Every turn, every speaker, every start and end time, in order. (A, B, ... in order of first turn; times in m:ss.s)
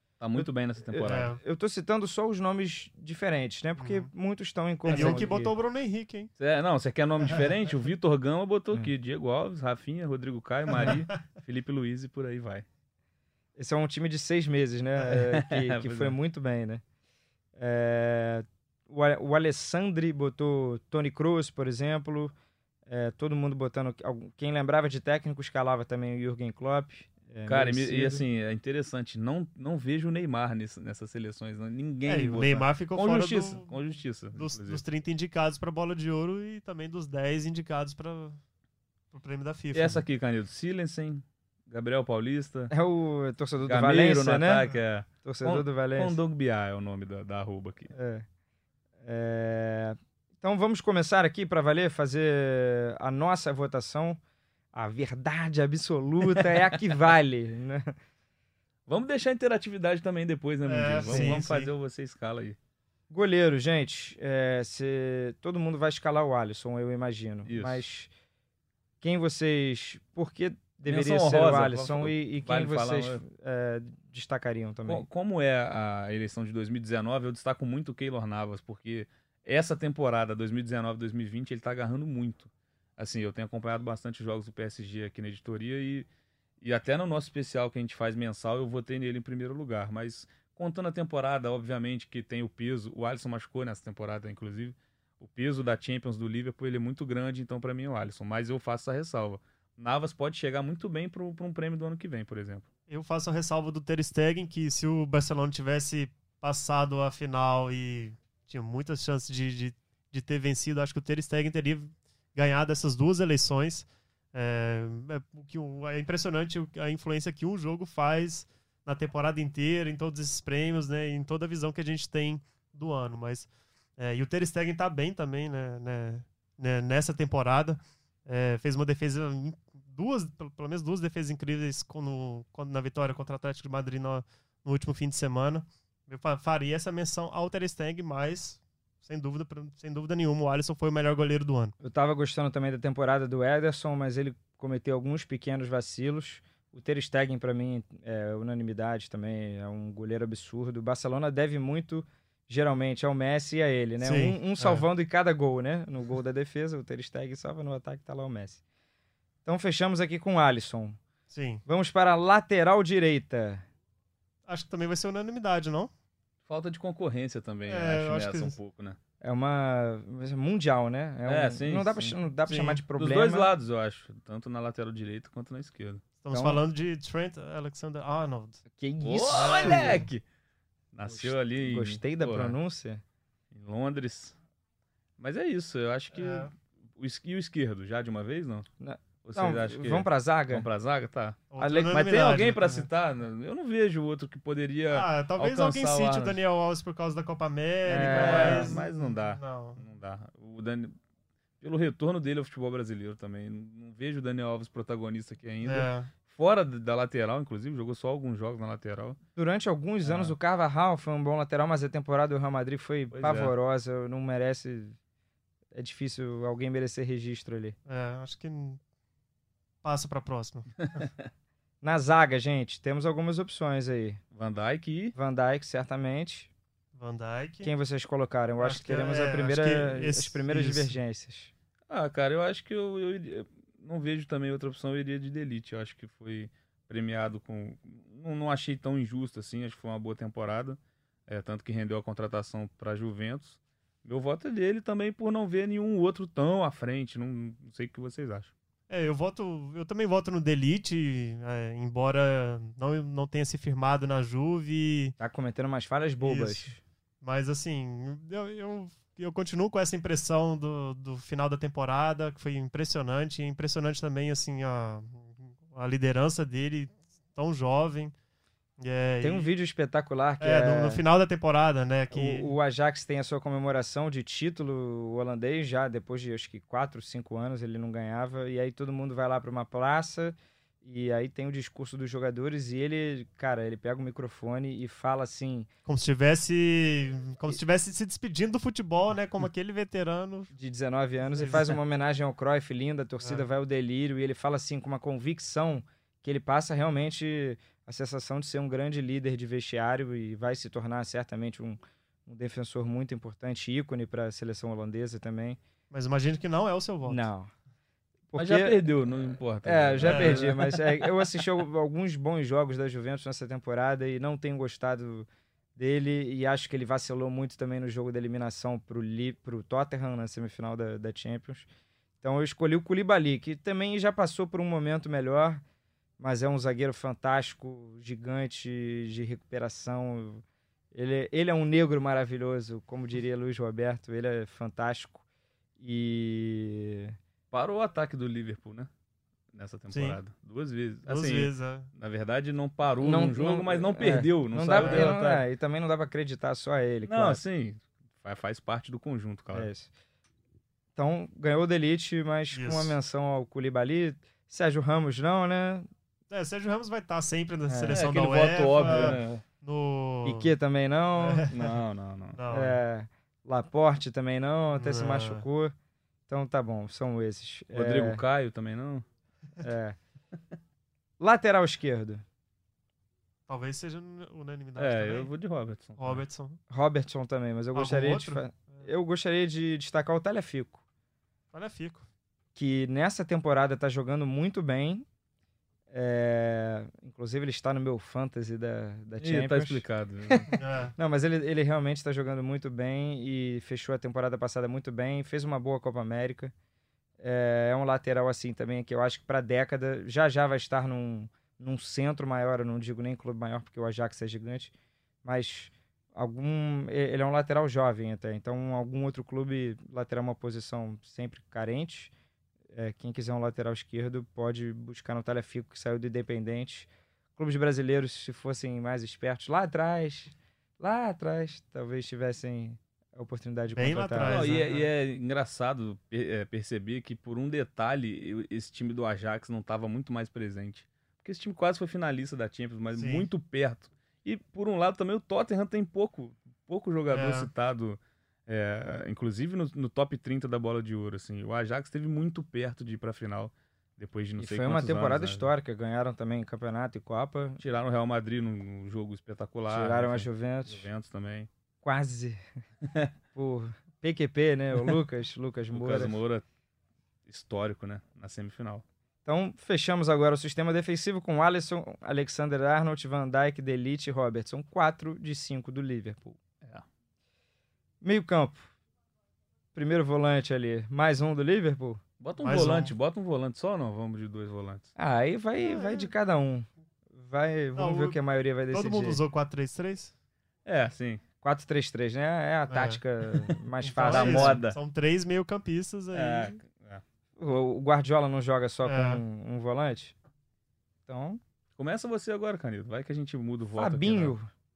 0:00.2-0:01.3 A
0:00.4-0:05.5 B
0:01.0-0:01.4 C
0:03.8-0:04.1 C
0:04.9-0:06.3 C
0:04.9-0:05.2 A
0:06.4-0:12.6 A
0:10.7-0:11.2 C
0:13.6-0:16.8 B
0:15.1-0:16.2 A
0:17.6-0:22.3 B
0:22.9-0:28.2 B
0:27.5-0:34.8 A
0:32.1-0:33.8 C
0:34.4-0:38.4 C
0:39.1-0:40.0 C
0:39.7-0:42.7 A
0:42.7-0:44.6 B
0:43.6-0:47.9 A
0:45.2-0:46.2 B
0:47.9-0:48.2 B
0:49.0-0:54.2 B
0:54.7-0:58.0 B
0:56.3-0:56.8 A
0:58.9-1:02.6 A
1:00.6-1:01.7 C
1:01.1-1:01.6 B
1:03.1-1:08.1 B
1:07.5-1:07.8 A
1:09.0-1:15.0 B
1:10.9-1:13.2 A
1:14.9-1:26.1 A
1:26.6-1:42.6 A
1:42.9-2:21.7 C
2:21.8-2:38.6 B
2:34.0-2:34.8 C
2:39.5-2:41.0 B
2:41.3-2:41.6 C
2:41.7-2:43.6 B
2:44.5-2:45.9 C
2:46.5-2:49.0 A
2:47.7-2:48.6 C
2:49.2-2:53.5 B
2:51.3-2:52.2 A
2:52.5-2:52.8 C
2:53.0-2:56.0 A
2:56.2-2:58.6 C
2:56.3-2:56.6 B
2:58.7-3:00.0 B
2:59.0-3:00.2 A
2:59.3-3:00.0 C
3:00.9-3:02.6 A
3:01.1-3:03.0 B
3:03.5-3:04.4 A
3:05.2-3:08.7 A
3:06.2-3:06.5 C
3:08.8-3:10.7 B
3:09.2-3:16.4 A
3:11.5-3:12.9 C
3:11.6-3:11.9 B
3:14.9-3:19.8 C
3:17.9-3:18.8 B
3:18.0-3:21.0 A
3:21.6-3:29.2 A
3:25.6-3:26.1 C
3:29.4-3:35.0 B
3:30.0-3:30.3 A
3:33.1-3:33.5 A
3:35.7-3:37.8 B
3:37.9-3:38.8 C
3:39.8-3:41.1 C
3:41.8-3:44.2 B
3:44.3-3:45.2 A
3:45.2-3:46.5 B
3:47.0-3:47.7 C
3:47.6-3:51.5 B
3:48.6-3:50.9 C
3:51.9-4:08.5 A
4:08.9-4:15.2 C
4:15.2-4:16.8 B
4:16.2-4:16.7 C
4:17.2-4:28.1 C
4:28.8-4:29.5 C
4:29.2-4:31.0 B
4:30.4-4:32.5 C
4:32.1-4:45.7 B
4:45.9-4:50.5 C
4:50.5-5:05.6 B
4:51.3-4:51.8 C
5:05.9-5:07.3 C
5:07.1-5:07.5 B
5:08.3-5:08.9 B
5:08.4-5:10.9 A
5:09.6-5:21.7 B
5:10.0-5:10.4 C
5:22.2-5:25.6 B
5:26.2-5:35.2 B
5:35.8-5:37.2 B
5:37.5-5:38.9 A
5:39.5-5:45.4 A
5:39.9-5:40.2 C
5:41.1-5:41.9 C
5:43.0-5:47.4 B
5:44.8-5:45.1 C
5:47.1-5:49.7 A
5:49.5-5:49.9 B
5:51.0-5:55.9 B
5:52.5-5:53.0 C
5:56.3-6:00.5 C
5:57.7-5:58.0 B
5:57.9-5:59.4 A
5:58.8-5:59.2 B
6:00.2-6:01.5 B
6:01.2-6:01.8 C
6:01.5-6:02.4 A
6:02.4-6:02.8 C
6:02.5-6:05.7 B
6:04.8-6:05.4 C
6:06.3-6:08.2 B
6:07.7-6:09.0 A
6:09.6-6:10.0 B
6:11.2-6:12.2 B
6:13.5-6:15.3 C
6:14.8-6:16.2 A
6:16.0-6:16.6 C
6:16.7-6:20.8 B
6:17.8-6:18.9 C
6:21.5-6:22.1 C
6:22.6-6:25.1 B
6:25.9-6:36.5 B
6:29.2-6:30.5 A
6:30.5-6:30.9 C
6:37.2-6:44.7 B
6:45.2-6:52.1 B
6:52.7-7:04.4 B
7:03.7-7:04.9 C
7:04.2-7:25.5 A
7:13.0-7:13.3 C
7:17.1-7:17.5 C
7:24.4-7:27.6 B
7:27.6-7:31.5 A
7:29.7-7:30.9 B
7:31.8-7:32.4 B
7:33.3-7:36.2 B
7:35.7-7:36.4 A
7:37.3-7:38.8 A
7:39.3-7:46.4 B
7:48.0-7:48.7 B
7:49.8-7:52.0 B
7:52.2-7:54.9 A
7:52.4-7:52.9 C
7:55.0-7:59.2 B
7:55.6-7:56.1 C
7:57.8-7:58.2 C
7:58.7-8:00.1 C
8:00.7-8:01.2 A
8:01.4-8:04.6 B
8:02.7-8:06.6 C
8:04.0-8:04.8 A
8:06.1-8:07.0 A
8:07.4-8:10.1 B
8:08.8-8:09.2 C
8:11.1-8:11.4 B
8:11.8-8:14.3 A
8:13.8-8:14.5 B